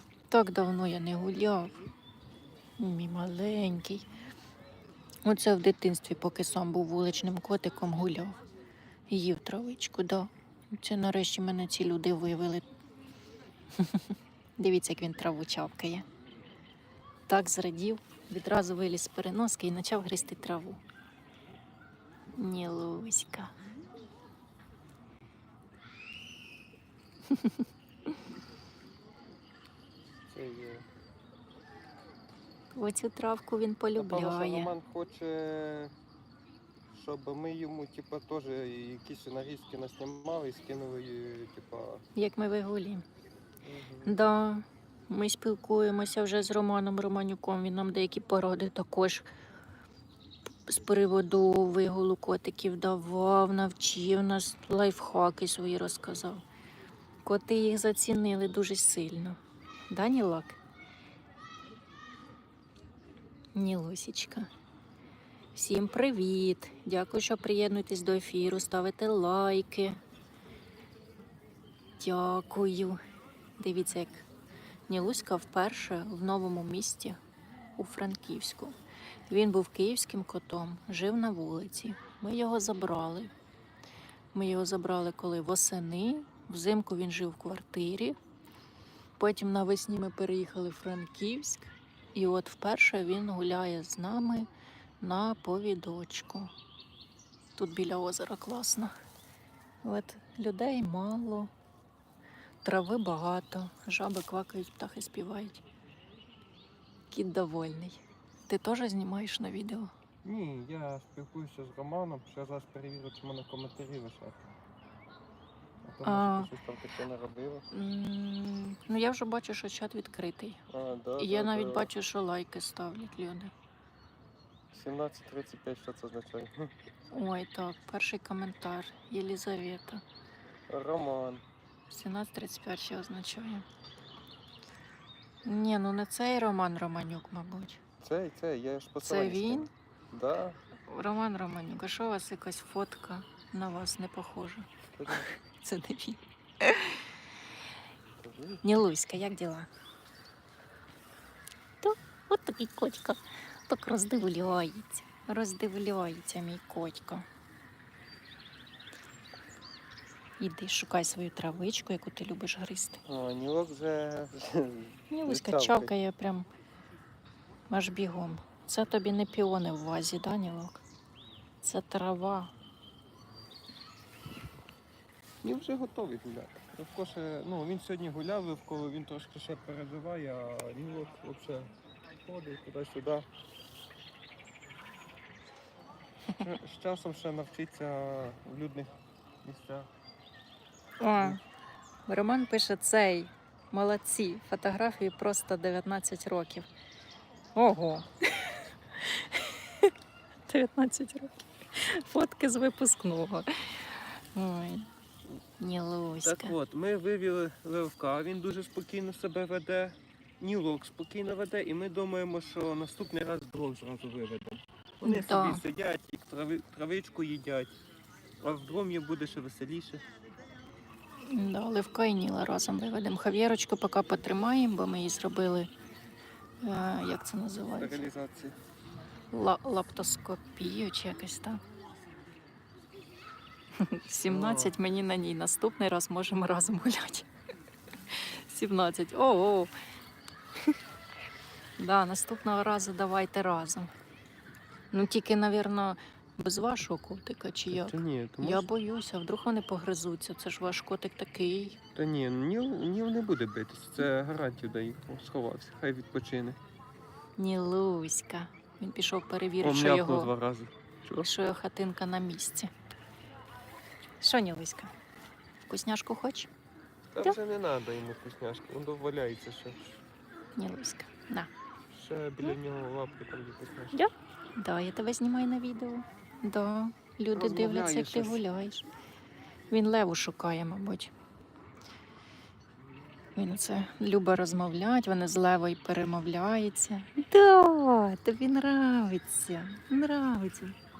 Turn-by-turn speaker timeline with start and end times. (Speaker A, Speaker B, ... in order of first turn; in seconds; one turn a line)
Speaker A: 0.3-1.8
Speaker A: 2.8-4.1
Speaker A: 5.2-8.4
Speaker A: 9.1-12.7
Speaker A: 13.8-16.1
Speaker A: 17.3-20.8
Speaker A: 22.4-23.5
Speaker B: 30.3-30.9
Speaker A: 32.7-34.7
Speaker B: 34.0-35.9
Speaker B: 36.9-42.0
Speaker A: 42.1-43.0
Speaker B: 43.6-44.2
Speaker A: 44.0-49.3
Speaker A: 50.6-56.4
Speaker A: 57.2-59.4
Speaker A: 59.9-60.6
Speaker A: 63.5-64.5
Speaker A: 65.5-70.0
Speaker A: 72.0-73.0
Speaker A: 73.6-74.3
Speaker A: 74.9-77.2
Speaker A: 77.8-78.8
Speaker A: 79.3-83.3
Speaker A: 84.3-88.2
Speaker A: 89.2-94.5
Speaker A: 95.0-96.5
Speaker A: 97.5-98.9
Speaker A: 99.8-101.5
Speaker A: 102.6-105.6
Speaker A: 107.1-109.9
Speaker B: 110.2-114.5
Speaker B: 115.8-117.7
Speaker A: 116.0-116.5
Speaker A: 117.7-120.6
Speaker B: 120.7-121.9
Speaker A: 121.2-123.5
Speaker B: 124.7-126.7
Speaker A: 127.1-130.0
Speaker B: 130.7-131.4
Speaker A: 131.9-133.7
Speaker A: 135.4-137.8
Speaker B: 138.0-140.6
Speaker A: 139.0-139.7
Speaker A: 140.8-147.1
Speaker B: 144.9-145.3
Speaker B: 148.2-148.6
Speaker A: 148.6-149.7
Speaker A: 151.8-157.2
Speaker A: 160.4-163.0
Speaker B: 163.1-165.9
Speaker A: 165.1-166.5
Speaker A: 167.7-170.8
Speaker A: 171.6-172.5
Speaker B: 175.4-181.7
Speaker B: 182.2-183.2
Speaker B: 186.3-188.9
Speaker B: 189.4-189.9
Speaker A: 191.0-191.4
Speaker A: 192.1-196.7
Speaker A: 197.6-199.9
Speaker A: 200.5-204.9
Speaker A: 205.6-206.6
Speaker B: 206.2-217.8
Speaker A: 215.0-215.6
Speaker B: 218.4-220.0
Speaker A: 221.2-225.7
Speaker A: 226.6-228.0
Speaker B: 227.7-228.6
Speaker A: 229.3-231.6
Speaker A: 233.8-237.3
Speaker B: 234.3-234.8
Speaker A: 238.1-239.7
Speaker A: 241.8-243.9
Speaker A: 244.9-251.8
Speaker B: 247.7-248.7
Speaker B: 251.9-256.6
Speaker A: 257.4-260.3
Speaker B: 259.6-261.3
Speaker A: 261.2-262.7
Speaker A: 264.2-264.9
Speaker A: 265.7-266.5
Speaker B: 267.1-270.0
Speaker A: 270.6-271.5
Speaker B: 271.9-274.0
Speaker A: 273.9-278.8
Speaker B: 277.3-278.4
Speaker A: 279.7-281.1
Speaker A: 283.4-290.7